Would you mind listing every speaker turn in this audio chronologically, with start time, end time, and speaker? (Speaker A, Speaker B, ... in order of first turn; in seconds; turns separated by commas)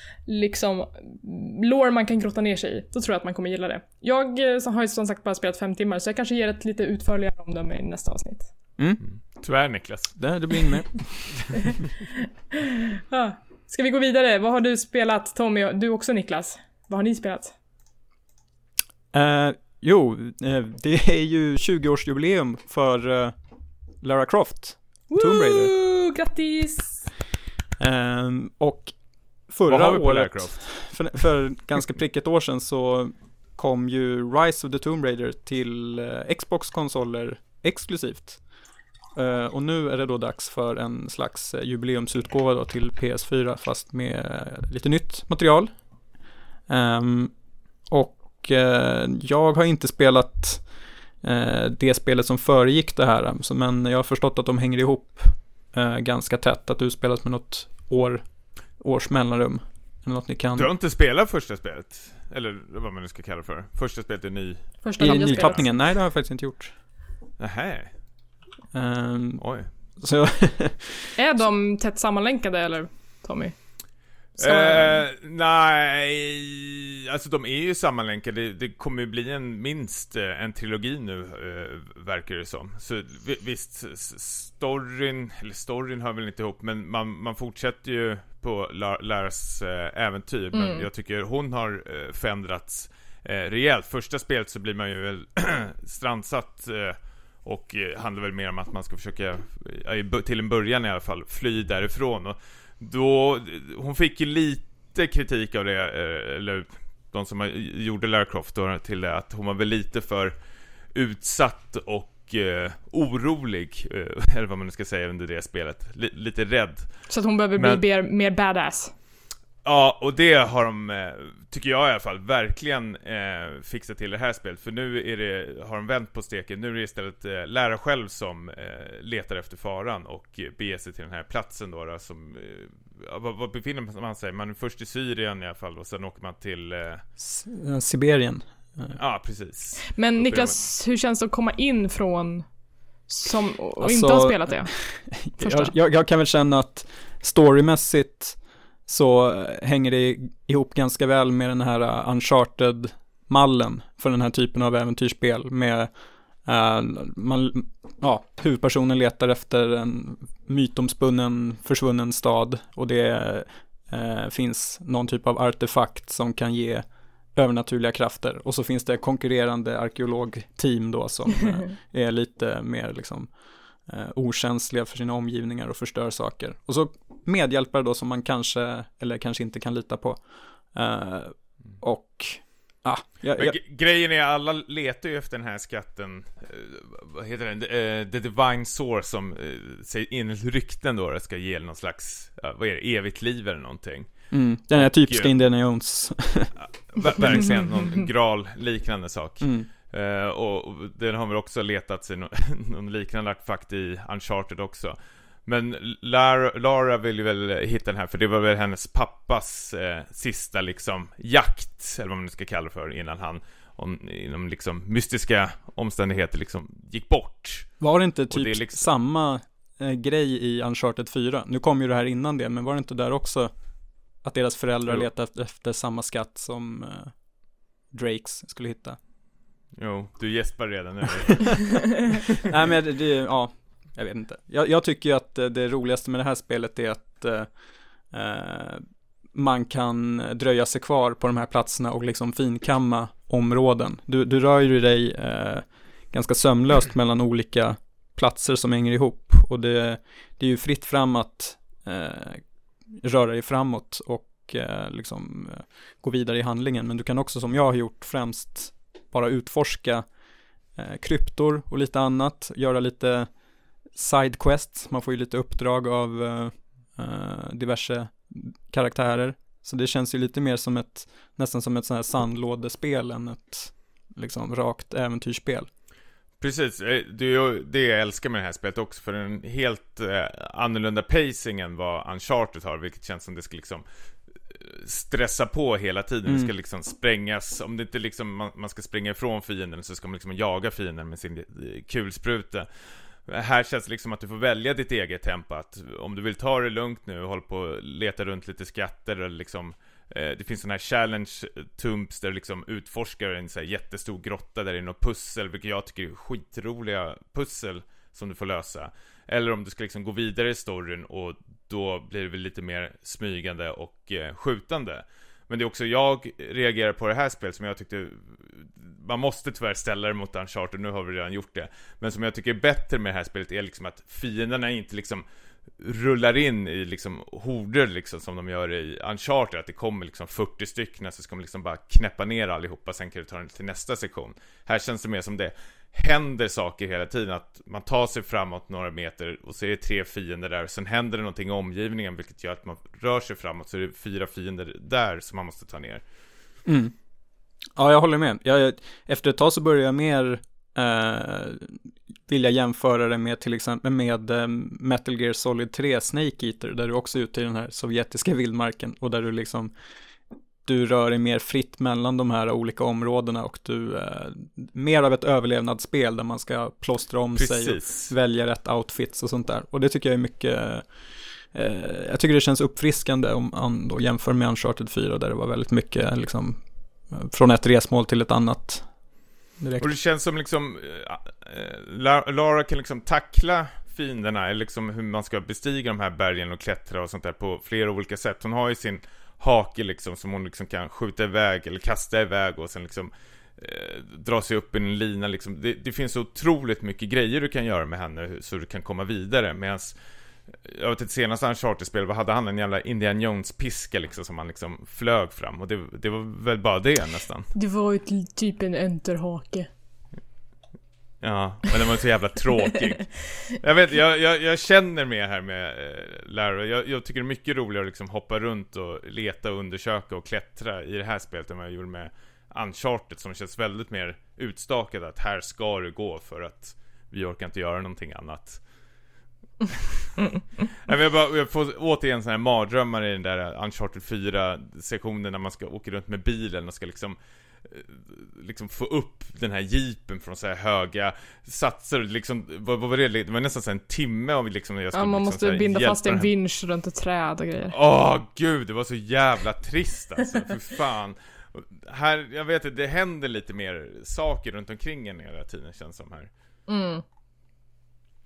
Speaker A: 0.3-8.5, Speaker B: 9.0-10.3, Speaker C: 10.2-11.7, Speaker A: 12.6-17.6, Speaker C: 19.1-23.4, Speaker C: 24.0-25.7, Speaker A: 25.1-27.1, Speaker C: 27.8-38.5, Speaker B: 29.7-31.1, Speaker C: 39.1-45.8, Speaker C: 46.7-60.7, Speaker B: 60.6-65.6, Speaker A: 64.8-65.6, Speaker C: 65.0-66.7, Speaker B: 67.4-67.9, Speaker C: 68.7-69.4, Speaker B: 69.4-69.7, Speaker C: 70.0-71.1, Speaker A: 71.2-73.6, Speaker A: 74.4-75.0, Speaker B: 74.4-110.3, Speaker A: 90.5-90.9, Speaker B: 110.9-117.8, Speaker A: 117.1-118.9, Speaker B: 119.6-137.0, Speaker C: 137.2-139.0, Speaker B: 138.9-140.7, Speaker A: 139.9-142.5, Speaker A: 143.1-145.7, Speaker C: 143.8-183.6, Speaker B: 183.3-195.3, Speaker C: 194.3-196.5, Speaker B: 196.6-218.9, Speaker C: 199.4-199.7, Speaker C: 217.8-229.0, Speaker B: 229.8-232.3, Speaker C: 232.4-260.2, Speaker C: 260.7-275.7, Speaker B: 276.4-283.9, Speaker B: 284.5-325.2, Speaker C: 286.3-286.5, Speaker B: 325.8-346.0, Speaker C: 346.7-346.9, Speaker C: 347.7-359.7, Speaker C: 360.6-371.0, Speaker B: 367.4-368.1, Speaker C: 371.5-379.0, Speaker C: 379.6-379.9, Speaker B: 379.8-400.0, Speaker B: 400.6-407.5, Speaker A: 407.5-409.7, Speaker B: 411.2-428.6, Speaker B: 430.9-446.3, Speaker A: 444.9-447.8, Speaker B: 447.7-456.3, Speaker A: 456.7-457.0